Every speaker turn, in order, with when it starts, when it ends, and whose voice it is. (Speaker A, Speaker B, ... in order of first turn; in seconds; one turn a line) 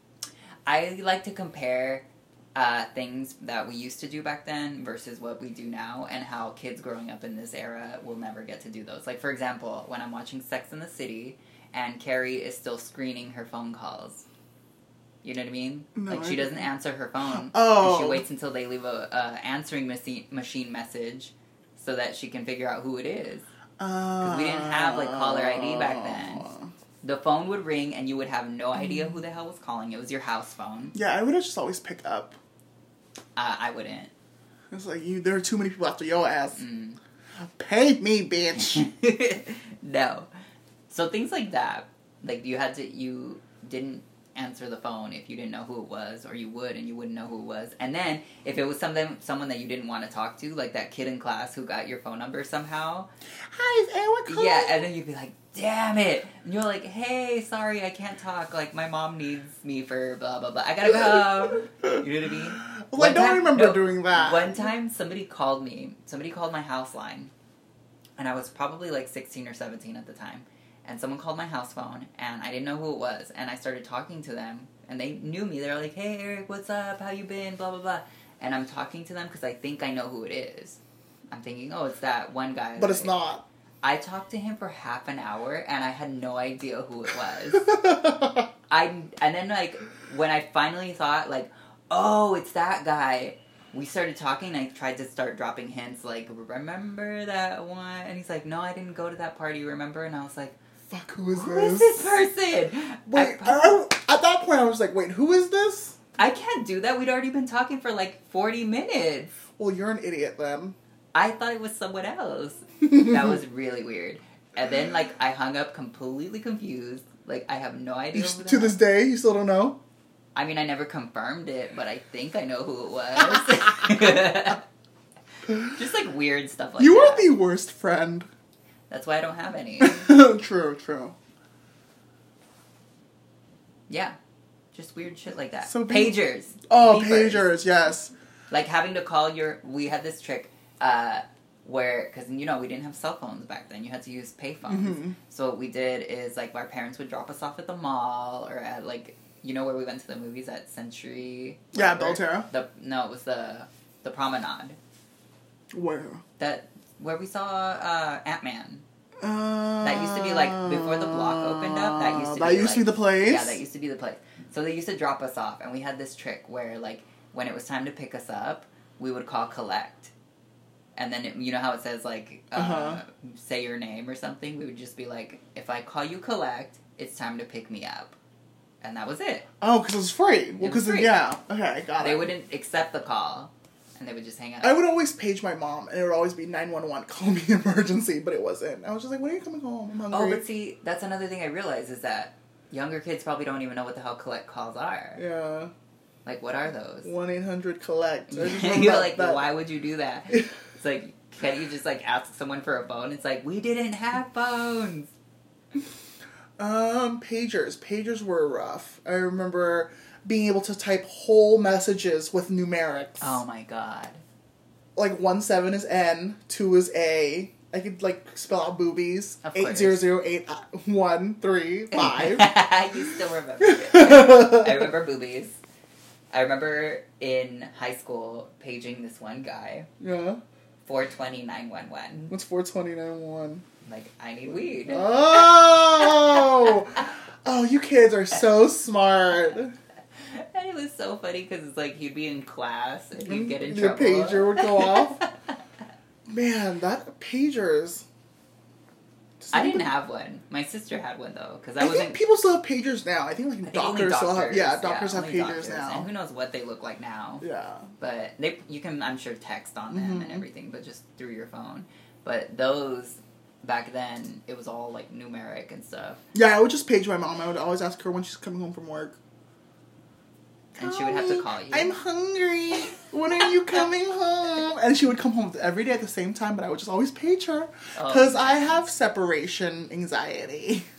Speaker A: 0.7-14.2
Speaker A: 15.2-23.5
Speaker B: 16.0-16.6
Speaker B: 17.5-18.2
Speaker B: 23.8-26.7
Speaker A: 24.2-26.5
Speaker A: 27.0-30.9
Speaker B: 30.9-32.4
Speaker A: 33.4-34.1
Speaker B: 34.7-36.6
Speaker A: 36.6-37.0
Speaker B: 37.5-38.9
Speaker A: 38.6-40.3
Speaker A: 40.9-53.1
Speaker B: 53.5-54.9
Speaker A: 54.3-67.3
Speaker B: 62.9-64.6
Speaker A: 68.2-80.8
Speaker A: 81.3-83.1
Speaker B: 82.8-83.4
Speaker A: 83.8-88.1
Speaker A: 88.7-100.6
Speaker B: 100.9-102.2
Speaker A: 101.3-103.7
Speaker B: 103.1-106.0
Speaker A: 106.2-109.3
Speaker B: 109.6-110.8
Speaker A: 111.1-118.8
Speaker B: 118.1-119.8
Speaker A: 120.3-124.6
Speaker A: 125.5-127.3
Speaker B: 126.8-128.3
Speaker A: 128.9-130.1
Speaker B: 129.8-131.2
Speaker A: 133.9-134.2
Speaker A: 134.7-137.6
Speaker B: 135.7-136.2
Speaker B: 136.7-138.1
Speaker A: 138.5-154.8
Speaker B: 144.7-145.2
Speaker B: 151.7-152.5
Speaker B: 155.7-156.2
Speaker A: 156.4-158.8
Speaker B: 159.2-163.6
Speaker A: 159.8-170.1
Speaker A: 171.0-178.2
Speaker B: 172.6-173.0
Speaker A: 178.8-179.5
Speaker B: 179.6-182.3
Speaker A: 180.6-181.2
Speaker A: 182.0-184.8
Speaker B: 184.6-190.4
Speaker A: 190.1-195.2
Speaker B: 195.2-195.7
Speaker A: 196.2-197.1
Speaker B: 197.0-199.5
Speaker A: 198.3-205.1
Speaker B: 206.6-213.4
Speaker A: 213.2-214.2
Speaker B: 215.0-222.6
Speaker A: 219.4-220.0
Speaker A: 221.9-225.6
Speaker B: 223.6-224.9
Speaker A: 226.3-229.9
Speaker B: 230.0-230.4
Speaker A: 230.9-232.3
Speaker B: 232.3-233.6
Speaker A: 233.8-235.4
Speaker B: 234.9-239.7
Speaker A: 240.2-245.3
Speaker B: 243.3-245.2
Speaker B: 246.3-248.1
Speaker B: 249.4-249.9
Speaker A: 249.5-252.2
Speaker B: 251.8-256.1
Speaker A: 253.6-257.4
Speaker B: 257.4-257.8
Speaker A: 258.0-266.2
Speaker B: 259.9-260.4
Speaker B: 266.3-269.2
Speaker A: 270.8-271.9
Speaker B: 270.8-280.9
Speaker A: 278.0-278.7